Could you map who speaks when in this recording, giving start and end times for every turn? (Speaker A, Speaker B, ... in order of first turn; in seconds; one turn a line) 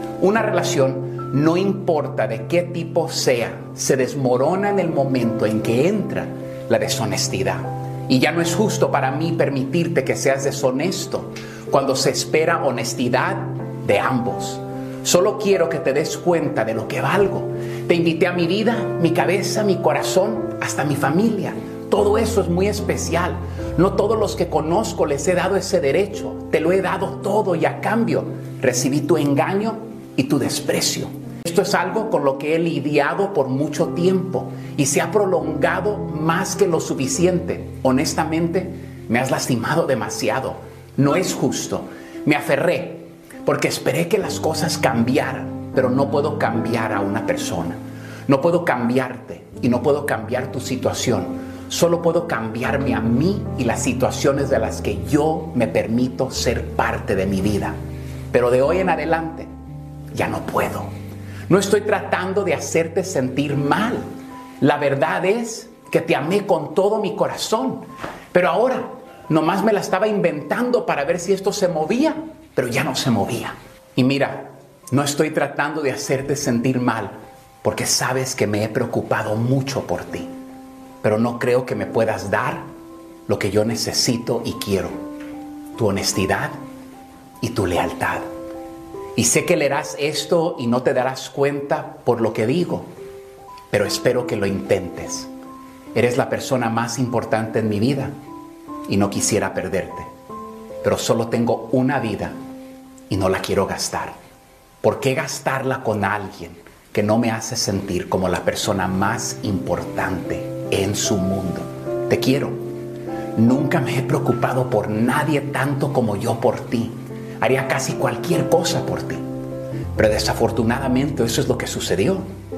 Speaker A: 0.2-57.8
Speaker A: 58.3-59.5
Speaker A: 60.1-60.9
Speaker A: 61.5-64.1
Speaker A: 64.6-80.3
Speaker A: 81.0-82.7
Speaker A: 83.3-85.0
Speaker A: 85.8-86.6
Speaker A: 87.4-88.3
Speaker A: 89.2-92.9
Speaker A: 93.7-95.3
Speaker A: 95.9-98.2
Speaker A: 98.9-100.1
Speaker A: 100.8-102.4
Speaker A: 103.1-104.2
Speaker A: 104.8-112.7
Speaker A: 113.4-119.2
Speaker A: 120.0-122.3